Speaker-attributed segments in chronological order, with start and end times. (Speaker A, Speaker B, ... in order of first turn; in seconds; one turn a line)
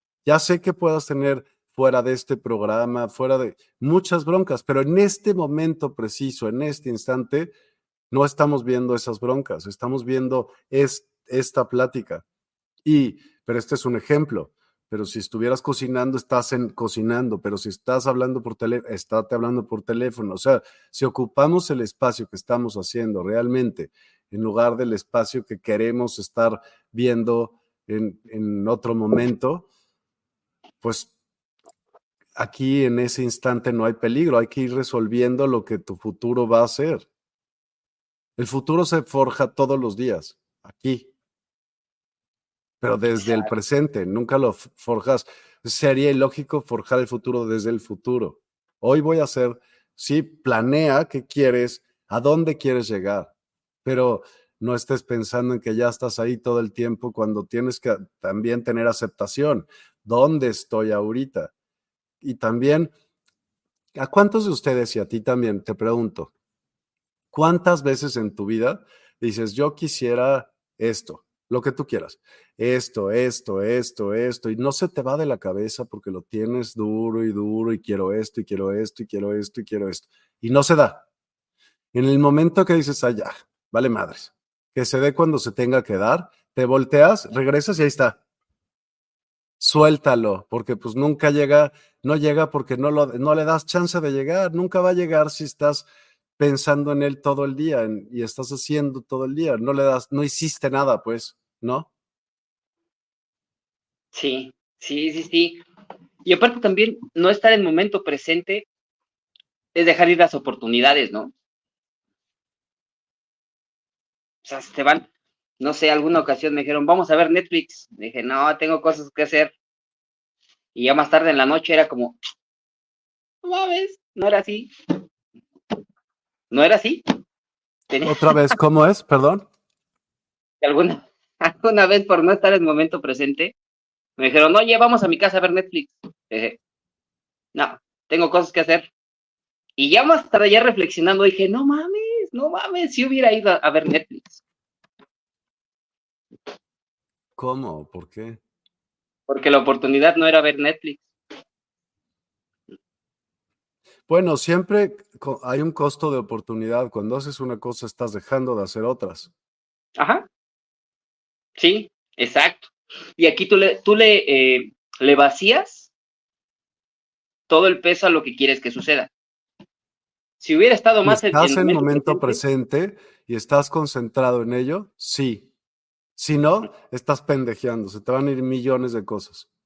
Speaker A: 0.2-7.5
Speaker A: 8.1-12.2
Speaker A: 12.8-29.7
Speaker A: 30.8-31.1
Speaker A: 32.4-37.0
Speaker A: 38.4-41.1
Speaker A: 42.8-53.3
Speaker B: 43.2-43.5
Speaker A: 53.8-61.5
Speaker A: 62.2-62.9
Speaker A: 63.9-66.3
Speaker A: 67.3-81.0
Speaker A: 81.9-88.2
Speaker A: 89.6-95.8
Speaker A: 96.4-101.9
Speaker B: 104.1-105.6
Speaker B: 106.2-108.7
Speaker B: 109.7-111.3
Speaker B: 114.4-115.1
Speaker B: 115.6-119.5
Speaker B: 120.7-122.2
Speaker B: 123.4-124.7
Speaker B: 126.5-127.0
Speaker B: 127.9-128.4
Speaker A: 128.0-129.4
Speaker B: 130.6-133.5
Speaker B: 134.2-136.6
Speaker B: 137.5-138.9
Speaker B: 139.8-144.4
Speaker A: 147.4-148.4
Speaker B: 149.3-151.1
Speaker A: 154.1-159.3
Speaker B: 160.0-160.2
Speaker B: 161.6-165.9
Speaker B: 167.5-169.1
Speaker B: 170.4-172.4
Speaker A: 171.0-175.5
Speaker A: 176.2-179.5